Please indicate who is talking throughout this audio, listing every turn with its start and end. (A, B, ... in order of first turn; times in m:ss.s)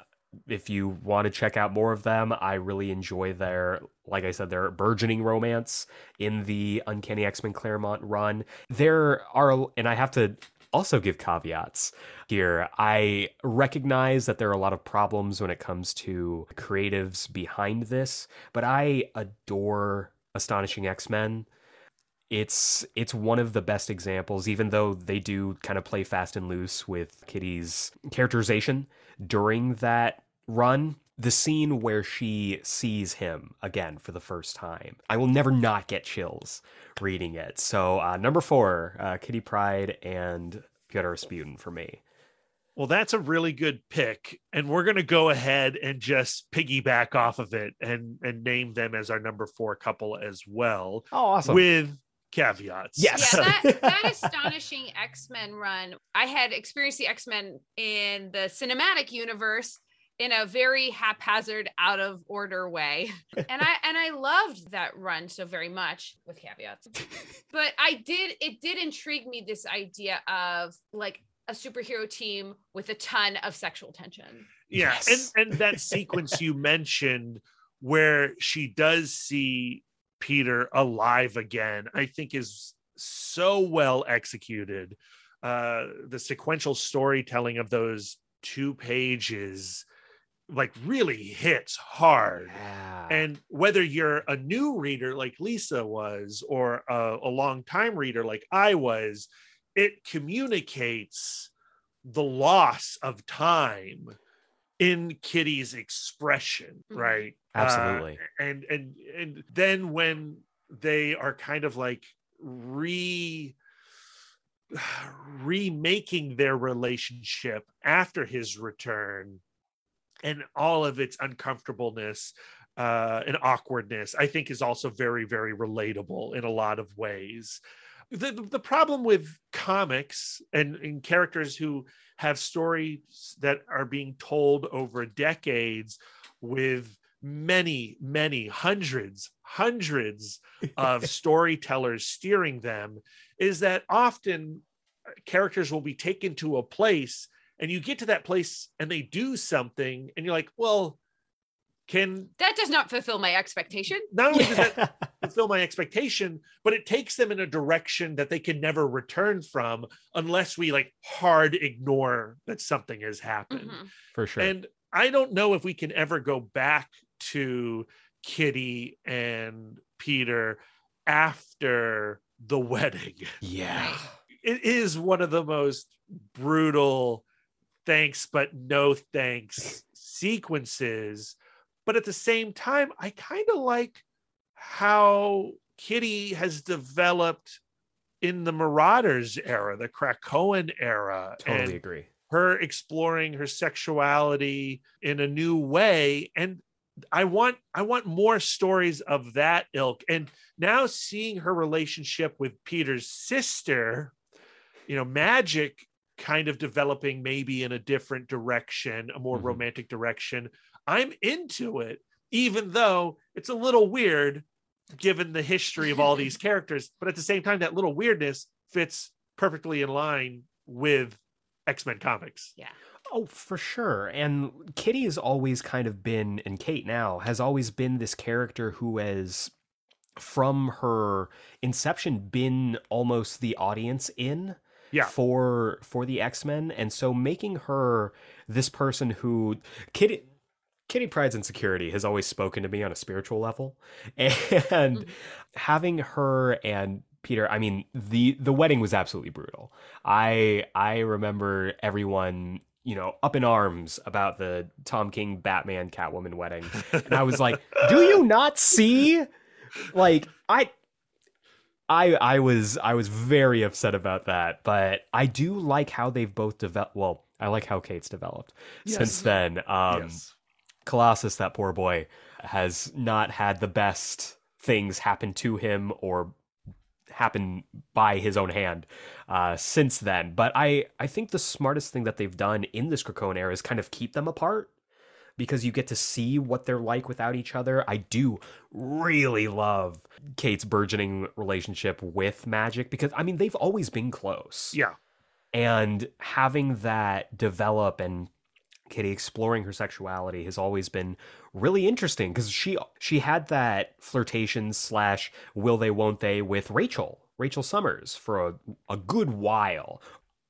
0:00.5-0:21.5 A
0:22.3-0:42.0 A
0:42.8-0:53.6 B
0:51.1-0:51.6 A
0:53.0-0:54.5 A
0:53.2-1:07.0 C
1:07.5-1:14.5 C
1:14.7-1:29.9 B
1:14.8-1:15.8 A
1:30.5-1:32.6 B
1:32.4-1:33.3 A
1:33.1-1:41.5 B
1:42.0-1:44.2 B
1:44.8-1:53.6 B
1:46.9-1:47.2 C
1:47.5-1:48.2 A
1:54.7-1:59.4 B
2:00.2-2:24.6 B
2:25.3-2:31.0 B
2:31.9-2:32.3 B
2:32.4-2:34.1 C
2:34.1-2:43.8 B
2:34.3-2:35.1 A
2:43.5-2:43.9 C
2:44.2-2:44.6 A
2:44.4-2:53.4 B
2:53.4-2:54.2 A
2:53.7-2:54.0 C
2:54.4-2:57.2 B
2:57.8-3:04.0 B
3:04.6-3:07.6 B
3:08.2-3:16.6 B
3:11.4-3:12.1 A
3:17.1-3:24.2 B
3:24.9-3:42.5 B
3:29.3-3:29.6 A
3:43.1-3:49.5 A
3:50.2-4:00.3 A
4:00.9-4:19.3 A
4:16.9-4:17.9 B
4:19.8-4:20.7 A
4:21.9-4:30.2 A
4:28.8-4:29.3 B
4:29.9-4:30.3 B
4:30.9-4:36.4 A
4:37.1-4:44.7 A
4:45.4-4:54.8 A
4:55.5-4:58.3 A
4:58.9-5:10.0 A